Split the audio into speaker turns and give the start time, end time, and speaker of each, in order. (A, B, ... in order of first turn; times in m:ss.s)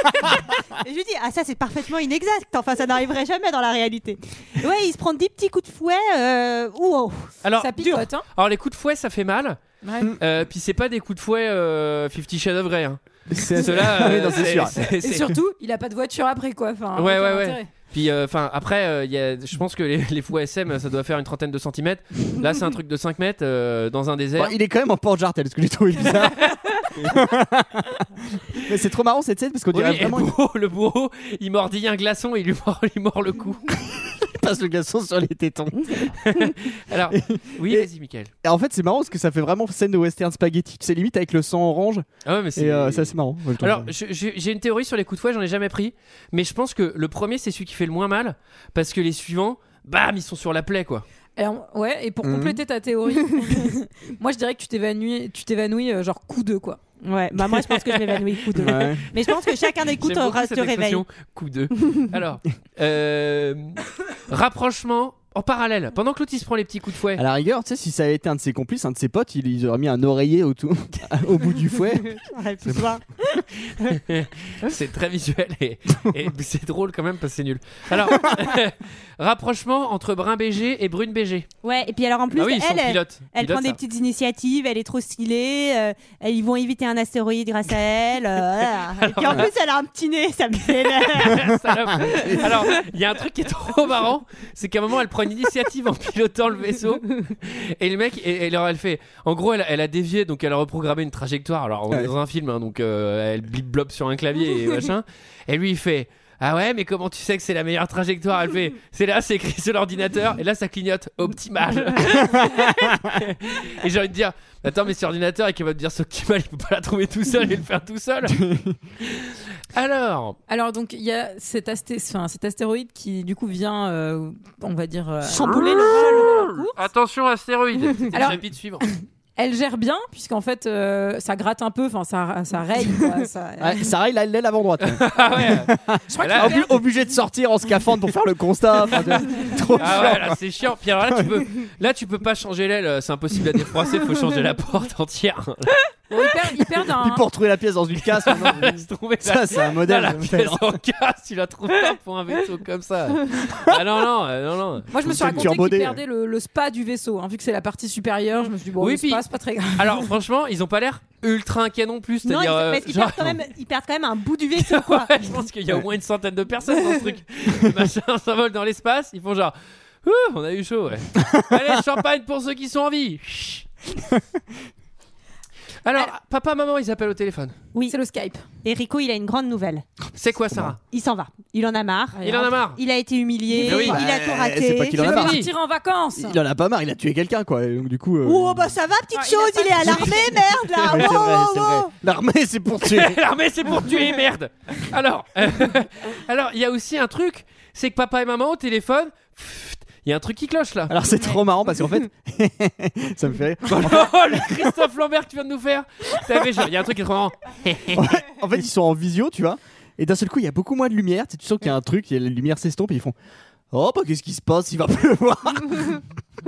0:00.5-0:08.0 A
0:07.4-0:07.8 B
0:07.6-0:08.2 C
0:08.3-0:09.6 B
0:09.8-0:10.1 C
0:10.2-0:15.3 B
0:13.3-0:15.1 D
0:15.0-0:17.7 C
0:17.0-0:24.6 B
0:24.4-0:30.3 D
0:26.0-0:27.0 B
0:29.7-0:33.6 B
0:33.9-0:36.2 D
0:36.2-0:38.3 B
0:37.1-0:37.9 D
0:38.4-0:43.9 D
0:42.2-0:51.0 B
0:51.4-0:56.8 C
0:52.2-0:52.6 D
0:57.0-1:01.0 A
0:57.8-0:58.7 B
0:58.6-0:59.1 D
1:00.0-1:07.2 B
1:01.8-1:02.0 A
1:07.2-1:12.9 D
1:12.1-1:13.0 A
1:13.6-1:21.5 B
1:21.6-1:32.5 A
1:22.4-1:23.8 B
1:29.0-1:29.5 B
1:31.0-1:58.4 B
1:32.0-1:32.4 D
1:52.4-1:53.0 D
1:58.3-1:58.8 D
1:59.0-2:00.4 B
2:00.5-2:06.8 C
2:05.3-2:06.3 A
2:05.5-2:08.9 B
2:08.1-2:13.9 C
2:13.6-2:20.4 D
2:14.8-2:16.6 B
2:16.1-2:16.8 C
2:19.8-2:25.8 B
2:21.1-2:21.5 D
2:26.1-2:27.2 C
2:26.9-2:30.8 D
2:28.2-2:34.9 B
2:34.9-2:40.1 C
2:35.0-2:36.0 D
2:38.8-2:39.2 B
2:39.8-2:43.4 B
2:42.2-2:45.4 A
2:44.6-2:53.7 B
2:51.2-2:51.4 D
2:55.8-2:57.6 B
2:57.9-2:58.4 C
2:58.6-2:59.8 A
3:00.2-3:00.8 B
3:00.9-3:05.0 A
3:02.1-3:02.5 C
3:02.2-3:02.8 B
3:03.6-3:05.5 D
3:03.6-3:04.0 B
3:05.0-3:06.4 C
3:05.0-3:05.5 B
3:06.2-3:08.8 D
3:08.2-3:11.9 A
3:09.1-3:11.2 C
3:09.8-3:10.2 D
3:10.8-3:13.2 D
3:12.8-3:21.0 B
3:20.9-3:24.8 D
3:23.7-3:28.2 B
3:26.3-3:26.6 D
3:27.9-3:33.2 D
3:33.7-3:36.0 D